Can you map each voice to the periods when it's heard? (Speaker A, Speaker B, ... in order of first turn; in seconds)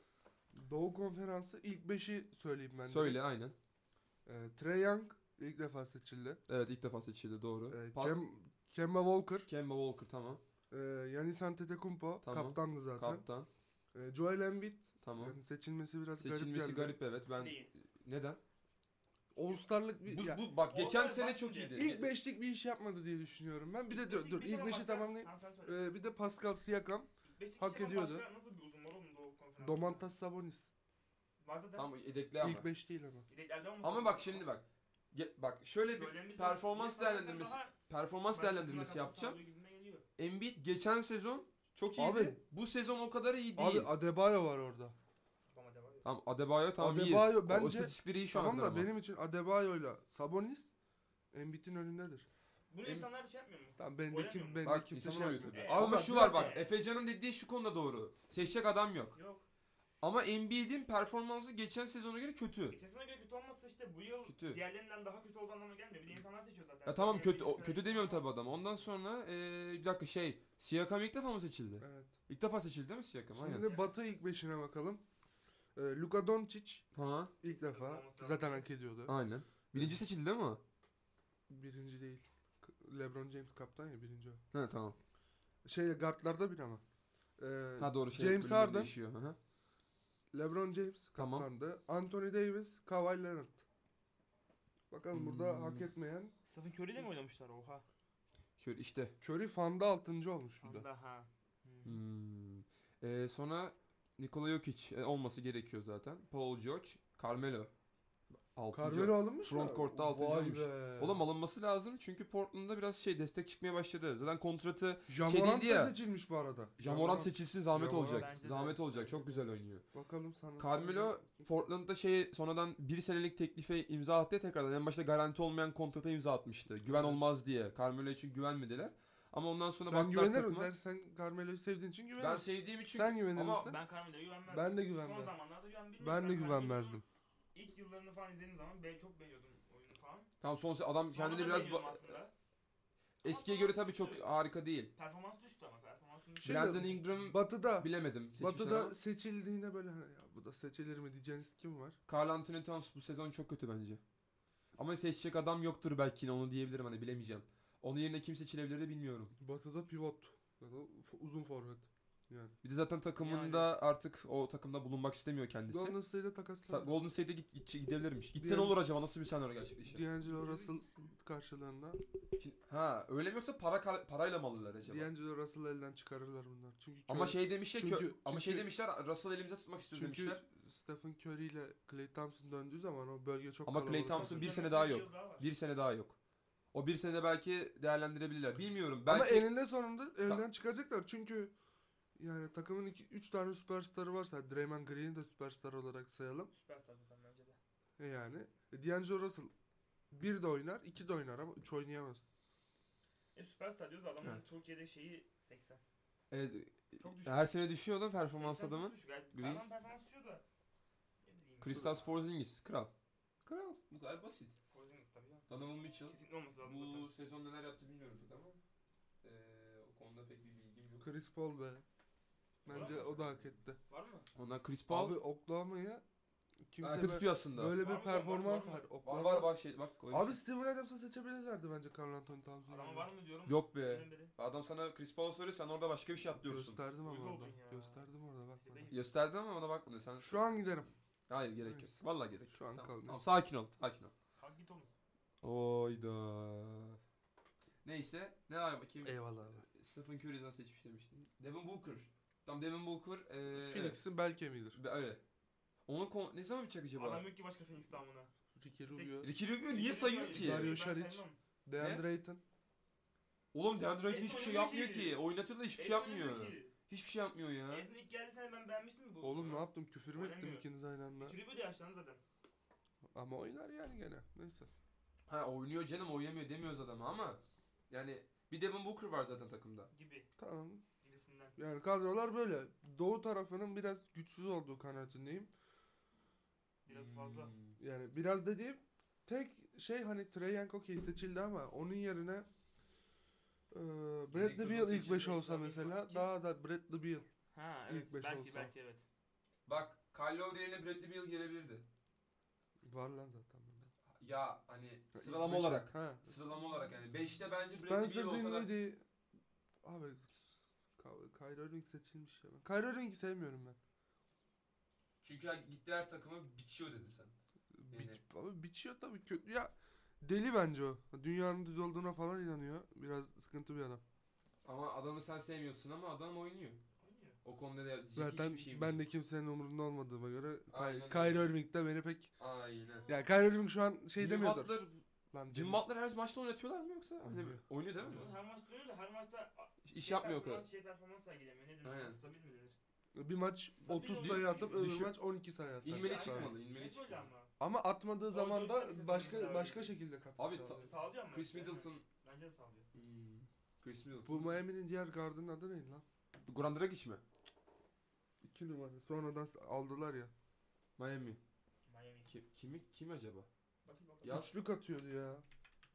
Speaker A: 0.6-3.2, 4.3-6.4, 7.7-9.5, 10.7-13.2, 13.9-17.0, 19.3-20.4, 21.8-28.3, 29.6-30.7, 32.4-33.3, 42.0-42.4, 43.6-45.0, 46.8-50.7, 51.3-52.3, 53.8-56.5, 71.8-72.1, 73.4-75.0, 75.8-76.8, 77.4-79.1, 81.5-84.4, 85.7-86.8, 87.4-89.0, 90.3-93.6, 94.9-96.3, 99.2-100.9, 108.7-111.2, 115.1-118.4, 119.9-121.4, 126.9-127.2, 129.8-133.8, 134.5-135.3, 136.0-137.0, 146.4-152.0, 159.4-162.6, 165.7-167.0, 168.4-168.8, 169.8-172.0, 174.8-178.7, 179.9-184.5, 189.1-191.5, 192.2-196.5, 198.0-199.5, 200.1-202.2, 221.0-221.8, 222.7-223.8, 224.9-226.0, 226.7-229.5, 230.1-233.1, 236.3-238.9, 240.2-240.9, 241.6-243.2, 249.0-249.7, 253.5-254.8, 258.6-259.3, 260.3-262.4, 269.2-271.4, 273.1-274.7, 280.4-280.8, 281.6-285.5, 287.8-292.5, 293.7-297.3, 297.9-298.7, 302.9-303.9, 305.1-306.3, 307.7-309.0, 309.8-310.4, 311.0-313.8, 317.8-324.0, 328.1-332.3, 333.1-334.7, 335.3-335.8, 337.2-338.3, 343.1-346.6, 347.6-350.8, 354.2-356.1, 358.4-360.3, 364.3-365.4
Speaker B: 2.9-3.6, 6.5-8.2, 9.5-10.4, 12.2-13.5, 15.0-15.4, 16.2-18.4, 20.1-22.1, 31.8-32.7, 33.8-39.4, 40.2-43.9, 46.0-48.9, 54.6-59.2, 60.0-62.8, 64.3-64.6, 66.9-73.6, 76.9-77.3, 79.1-80.6, 84.5-85.0, 87.8-89.4, 91.2-91.5, 95.1-95.9, 98.6-99.2, 101.8-107.7, 108.5-116.0, 116.8-119.8, 120.6-130.7, 132.2-133.7, 140.4-142.2, 143.2-144.9, 146.4-148.9, 152.1-154.0, 154.8-159.3, 162.6-166.0, 166.7-170.1, 172.4-175.1, 177.1-180.4, 183.7-186.2, 186.7-189.5, 206.3-209.6, 211.6-212.9, 213.4-214.5, 215.5-218.6, 219.2-221.1, 224.3-225.2, 226.8-227.8, 229.0-230.4, 233.5-236.8, 238.9-240.6, 241.3-244.1, 245.4-247.0, 247.8-254.0, 254.8-255.2, 255.9-257.3, 259.2-260.8, 263.5-267.9, 275.3-279.9, 286.9-287.8, 294.3-295.4, 299.7-301.9, 304.2-308.7, 315.2-317.3, 317.9-318.2, 324.6-326.8, 327.4-329.1, 330.7-331.5, 332.4-333.1, 334.1-335.0, 335.5-338.3, 339.8-340.6, 341.8-342.2, 344.1-345.2, 345.8-347.2, 350.4-352.1, 352.9-354.6, 356.4-357.2, 361.0-361.4, 362.3-363.5
Speaker C: 17.4-17.7, 20.7-21.8, 23.9-25.9, 27.2-30.1, 31.4-31.9, 33.3-34.5, 35.9-37.7, 38.3-40.0, 45.5-46.1, 52.7-54.7, 55.5-56.7, 59.1-59.5, 62.7-68.3, 73.5-73.9, 77.5-78.7, 96.5-97.8, 100.6-102.0, 118.0-119.5, 133.6-137.0, 137.5-140.3, 141.0-142.3, 143.2-144.3, 145.0-147.0, 163.2-163.7, 184.1-185.5, 196.5-197.6, 203.3-205.8, 207.0-207.5, 208.3-210.4, 211.2-212.3, 214.7-215.5, 216.1-217.1, 222.7-224.3, 227.8-228.9, 232.7-234.3, 237.0-238.0, 238.6-239.1, 244.4-244.9, 257.0-258.3, 258.9-261.4, 264.1-265.2, 265.7-266.7, 267.7-272.2, 279.9-280.3, 281.0-281.6, 286.9-287.6, 295.1-296.3, 297.5-299.1, 327.0-327.4, 332.9-333.4, 338.0-342.8, 343.8-344.9, 345.9-347.5, 348.3-349.9, 350.7-352.9, 361.9-362.3, 363.9-364.5